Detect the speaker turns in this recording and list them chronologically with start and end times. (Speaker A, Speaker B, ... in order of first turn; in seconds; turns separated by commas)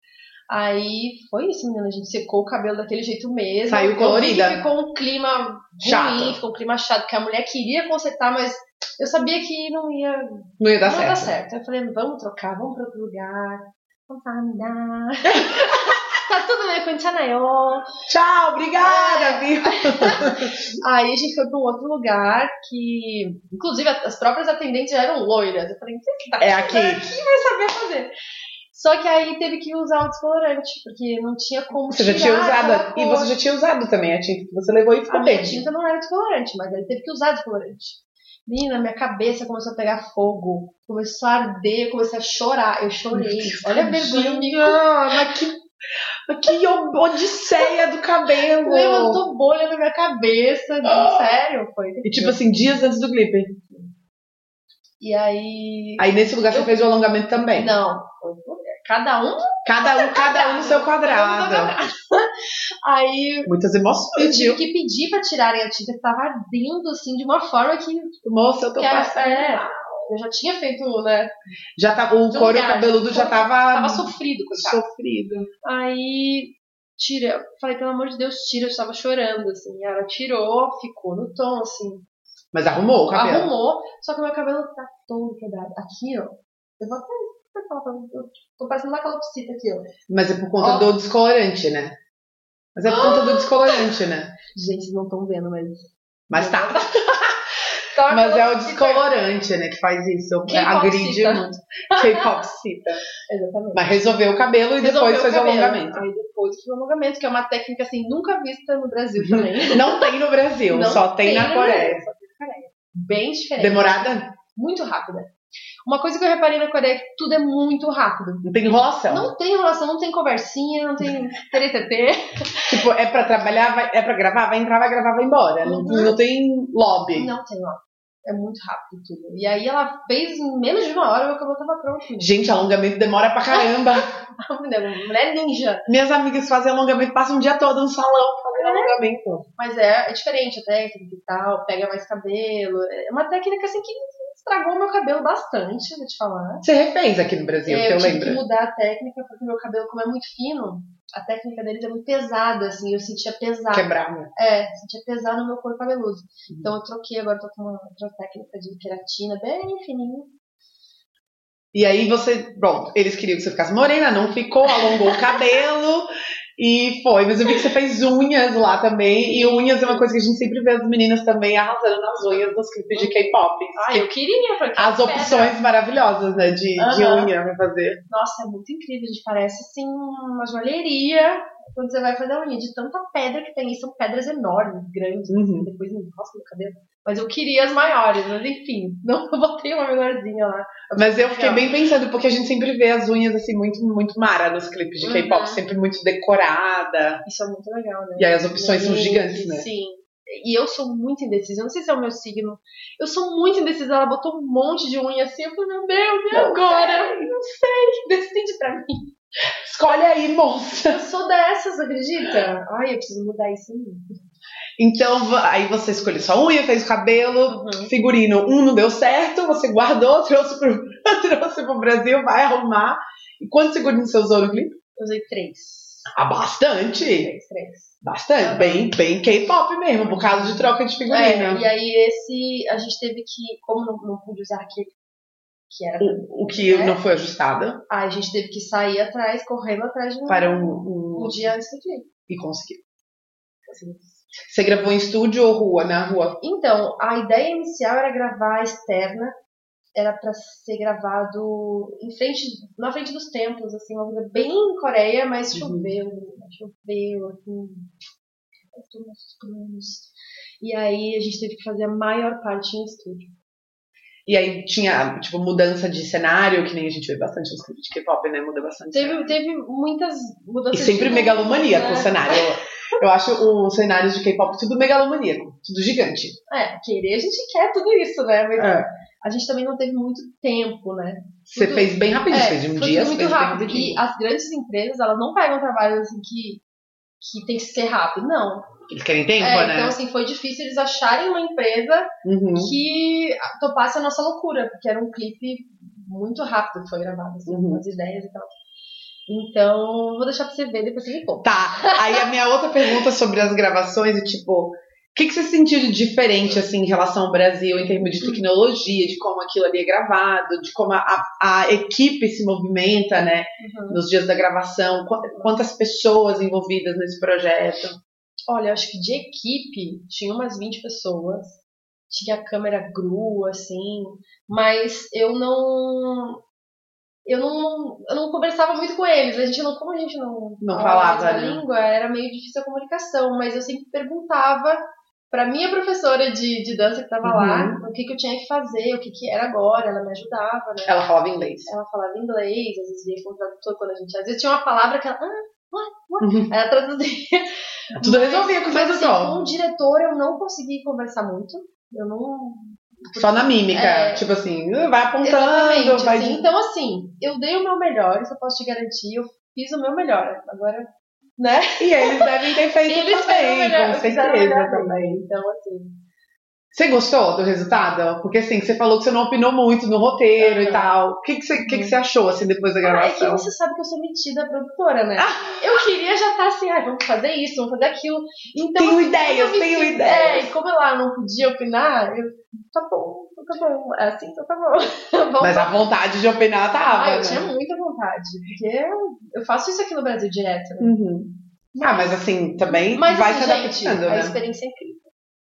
Speaker A: 0.5-17.9, Speaker B: 3.7-4.6, Speaker B: 5.8-6.4, Speaker B: 10.6-11.3, Speaker B: 18.1-20.7, Speaker A: 18.8-28.1, Speaker B: 26.4-27.2, Speaker A: 28.7-33.4, Speaker B: 31.9-35.6, Speaker A: 35.1-45.2, Speaker B: 43.1-45.6, Speaker B: 46.3-49.2, Speaker A: 48.5-52.4, Speaker B: 50.9-51.3, Speaker B: 52.0-53.7, Speaker A: 55.0-56.8, Speaker B: 56.0-57.7, Speaker A: 57.5-63.5, Speaker B: 59.6-61.8, Speaker B: 63.5-64.6, Speaker A: 64.2-68.2, Speaker B: 68.2-70.1, Speaker A: 68.8-71.3, Speaker B: 71.8-75.5, Speaker A: 72.3-74.8, Speaker A: 75.6-82.1, Speaker B: 82.5-83.5, Speaker A: 83.1-89.9, Speaker B: 90.1-92.0, Speaker A: 90.6-90.9, Speaker B: 92.8-94.3, Speaker A: 92.9-93.8, Speaker A: 94.5-97.3, Speaker B: 96.3-96.9, Speaker A: 97.9-99.1, Speaker B: 98.1-103.0, Speaker A: 100.5-102.3, Speaker A: 103.2-104.0, Speaker B: 103.7-106.0, Speaker A: 104.8-110.1, Speaker B: 109.2-112.0, Speaker A: 110.7-115.3, Speaker B: 113.6-114.3, Speaker A: 115.9-118.5, Speaker B: 118.4-119.3, Speaker A: 119.1-122.8, Speaker B: 122.7-127.3, Speaker A: 125.6-126.2, Speaker A: 127.2-132.3, Speaker B: 132.2-134.1, Speaker A: 133.5-135.9, Speaker B: 135.9-139.5, Speaker A: 138.6-138.9, Speaker A: 139.6-146.6, Speaker B: 146.6-148.4, Speaker A: 147.7-160.3, Speaker B: 153.7-154.3, Speaker B: 161.7-174.1, Speaker A: 164.8-165.4, Speaker A: 169.2-170.1, Speaker A: 172.9-175.6, Speaker B: 174.8-178.0, Speaker A: 176.8-177.3, Speaker A: 178.1-191.7, Speaker B: 185.3-185.7, Speaker B: 191.0-197.2, Speaker A: 195.0-195.6, Speaker A: 197.2-209.1, Speaker B: 198.2-199.7, Speaker B: 206.3-207.3, Speaker B: 209.6-211.0, Speaker A: 210.8-214.2, Speaker B: 214.8-224.8, Speaker A: 217.5-217.9, Speaker A: 225.0-226.1, Speaker B: 226.1-227.3, Speaker A: 227.0-228.9, Speaker B: 228.0-231.6, Speaker A: 230.2-234.9, Speaker A: 235.7-237.0, Speaker B: 236.0-237.8, Speaker A: 237.9-242.1, Speaker B: 240.3-241.4, Speaker B: 242.3-242.8, Speaker A: 243.7-244.2, Speaker B: 244.5-246.4, Speaker A: 246.4-249.4, Speaker A: 249.9-257.9, Speaker B: 255.5-255.9, Speaker A: 258.7-260.1, Speaker A: 260.6-263.3, Speaker B: 264.3-269.3, Speaker A: 268.9-272.4, Speaker B: 270.7-276.4, Speaker A: 276.5-286.6, Speaker B: 278.6-278.9, Speaker B: 281.5-284.0, Speaker A: 287.2-288.7, Speaker B: 288.9-290.0, Speaker A: 289.4-298.6, Speaker B: 292.2-292.7, Speaker B: 297.5-297.8, Speaker A: 299.3-302.3, Speaker B: 301.4-318.0, Speaker A: 313.6-314.0, Speaker A: 318.5-321.6, Speaker A: 322.1-326.4, Speaker A: 327.2-341.0, Speaker B: 330.6-331.6, Speaker B: 337.2-337.8, Speaker B: 340.9-341.7, Speaker A: 341.7-354.3, Speaker B: 346.2-346.5, Speaker B: 348.0-349.3, Speaker B: 353.1-356.4, Speaker A: 355.2-365.9, Speaker B: 361.8-365.2, Speaker B: 366.7-373.5, Speaker A: 370.4-370.9, Speaker A: 371.6-371.9, Speaker A: 372.8-385.7, Speaker B: 375.2-375.6, Speaker B: 378.6-380.5, Speaker B: 385.4-387.4, Speaker A: 386.9-390.9, Speaker B: 390.8-394.4, Speaker A: 391.8-395.1